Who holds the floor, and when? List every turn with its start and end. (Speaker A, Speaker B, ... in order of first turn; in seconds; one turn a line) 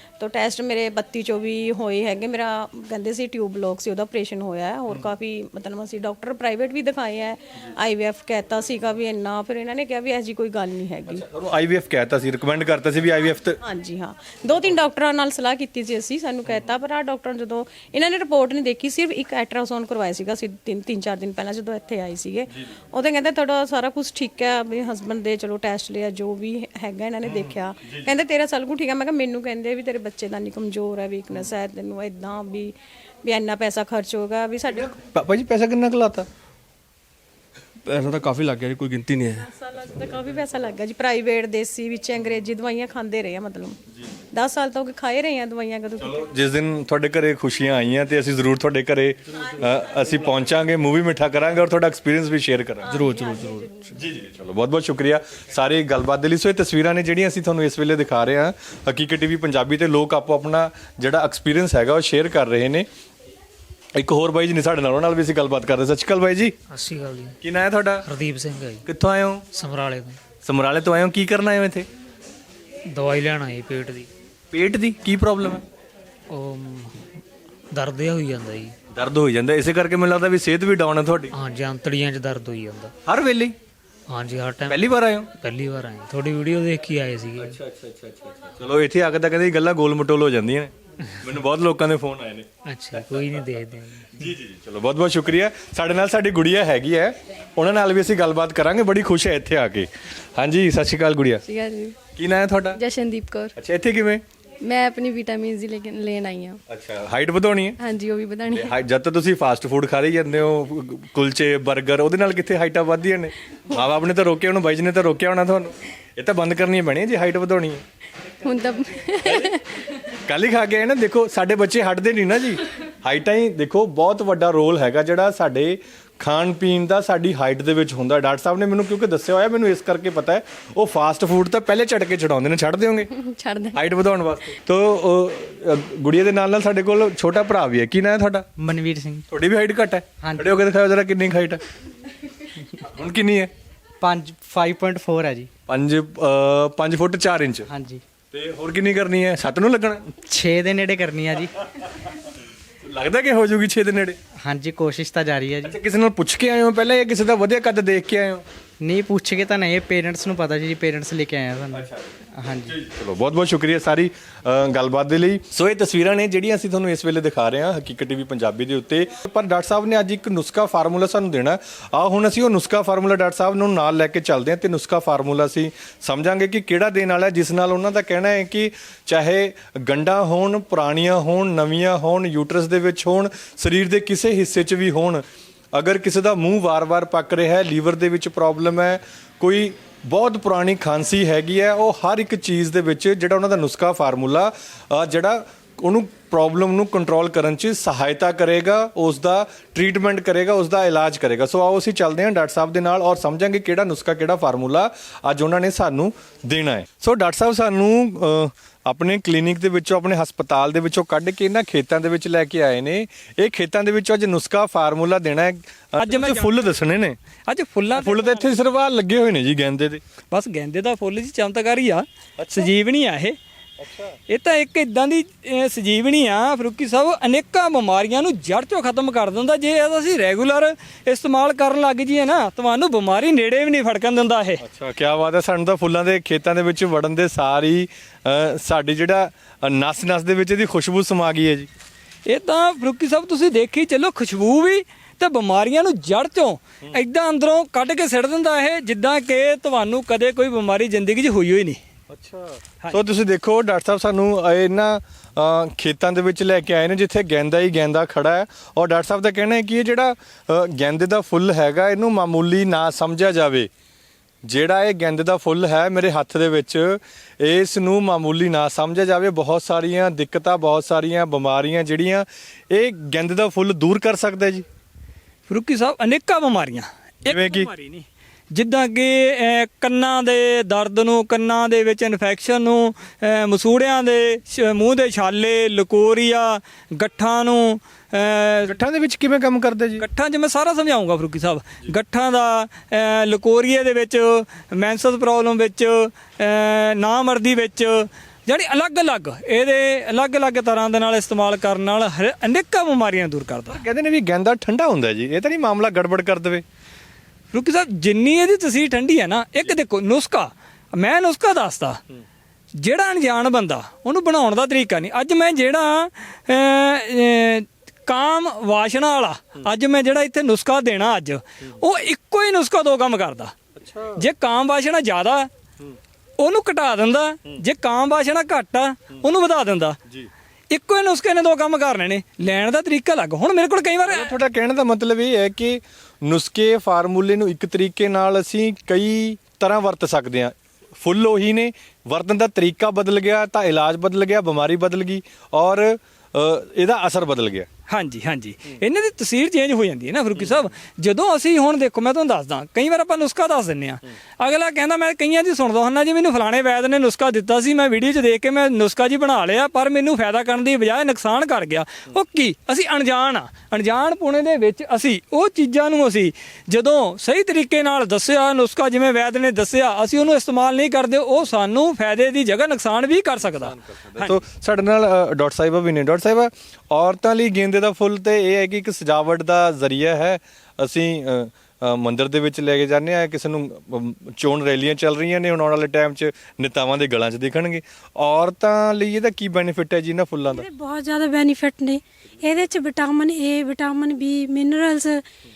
Speaker A: 0.2-11.2
Speaker B: 11.1-13.6
Speaker A: 13.6-34.9
Speaker B: 27.2-28.1
Speaker B: 34.7-36.3
Speaker C: 37.8-39.5
Speaker A: 39.5-43.8
Speaker B: 43.9-44.2
Speaker A: 44.3-46.3
Speaker B: 46.0-53.0
Speaker A: 49.3-50.3
Speaker C: 52.9-53.9
Speaker A: 52.9-53.8
Speaker B: 53.9-62.9
Speaker B: 63.9-66.5
Speaker D: 66.7-67.4
Speaker B: 67.4-68.0
Speaker D: 68.0-68.8
Speaker B: 68.8-69.4
Speaker D: 69.5-70.2
Speaker B: 70.4-71.9
Speaker D: 72.9-74.1
Speaker B: 74.5-75.6
Speaker D: 76.3-77.0
Speaker D: 77.7-78.7
Speaker B: 78.9-81.3
Speaker D: 81.3-82.9
Speaker B: 83.0-83.5
Speaker D: 84.1-84.8
Speaker B: 84.7-85.3
Speaker D: 85.3-87.6
Speaker B: 87.3-92.5
Speaker D: 92.6-94.2
Speaker B: 94.1-101.4
Speaker E: 101.4-102.0
Speaker B: 102.1-102.8
Speaker E: 102.7-103.5
Speaker B: 103.5-104.2
Speaker E: 104.6-106.6
Speaker B: 106.7-107.8
Speaker E: 107.8-108.8
Speaker B: 108.5-117.8
Speaker E: 118.4-119.8
Speaker B: 120.2-133.1
Speaker E: 133.1-133.8
Speaker B: 133.7-138.5
Speaker F: 138.6-139.2
Speaker B: 139.3-141.6
Speaker F: 140.2-140.6
Speaker B: 142.8-143.5
Speaker F: 144.0-145.5
Speaker B: 145.7-147.7
Speaker F: 147.7-148.0
Speaker B: 148.3-150.0
Speaker F: 150.2-151.5
Speaker B: 152.8-154.2
Speaker F: 154.4-155.8
Speaker B: 155.6-158.4
Speaker F: 158.8-162.7
Speaker B: 161.7-162.1
Speaker B: 162.7-217.2
Speaker G: 216.0-216.8
Speaker G: 217.5-218.5
Speaker B: 217.9-220.0
Speaker G: 220.3-223.4
Speaker B: 222.4-222.7
Speaker B: 223.8-224.2
Speaker G: 224.3-234.6
Speaker B: 234.6-241.7
Speaker G: 242.2-251.8
Speaker B: 252.1-263.7
Speaker B: 264.4-274.6
Speaker G: 275.5-288.8
Speaker B: 277.2-277.7
Speaker B: 288.6-290.0
Speaker G: 290.0-303.8
Speaker B: 303.7-306.6
Speaker G: 307.5-312.0
Speaker G: 312.8-323.5
Speaker B: 323.8-324.2
Speaker G: 324.2-325.5
Speaker G: 326.4-330.0
Speaker G: 330.7-334.4
Speaker B: 334.1-347.7
Speaker G: 347.9-374.4
Speaker B: 350.4-350.7
Speaker B: 373.4-390.7
Speaker H: 390.4-395.2
Speaker B: 392.4-392.6